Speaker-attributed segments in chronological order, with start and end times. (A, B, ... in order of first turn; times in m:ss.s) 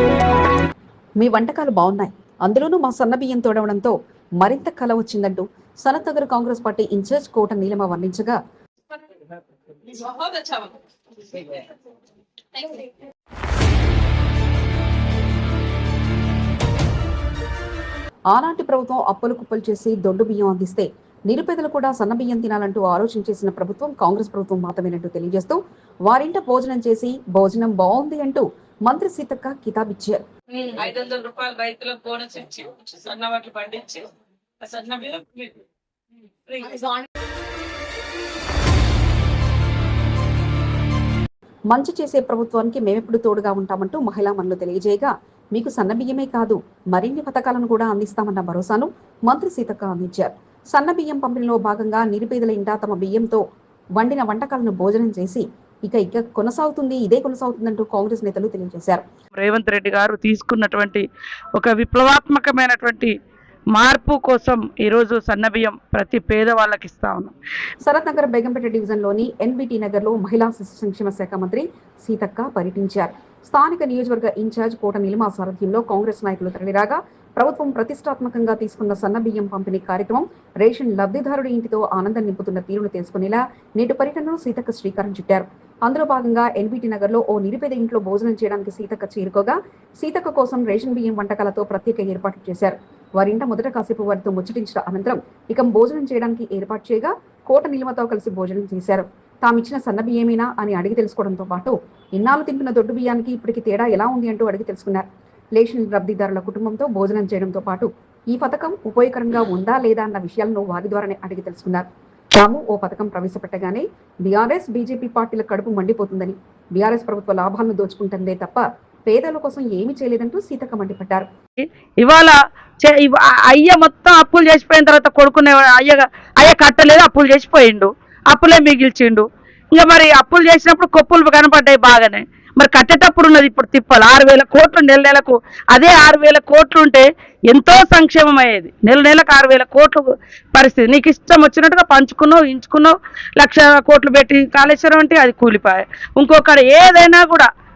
0:01.2-0:08.4 A
0:09.9-0:10.7 B
0:18.3-0:30.2 A
0:30.5-0:34.1 B
0:34.6-0:35.5 B
0:36.5-0:36.9 B
0:41.7-0:53.4 A
0:54.0-0:59.0 A
0:59.4-1:01.0 C
1:01.6-1:03.1 C
1:03.7-1:07.3 C
1:07.8-2:01.3 A
2:02.0-2:27.5 C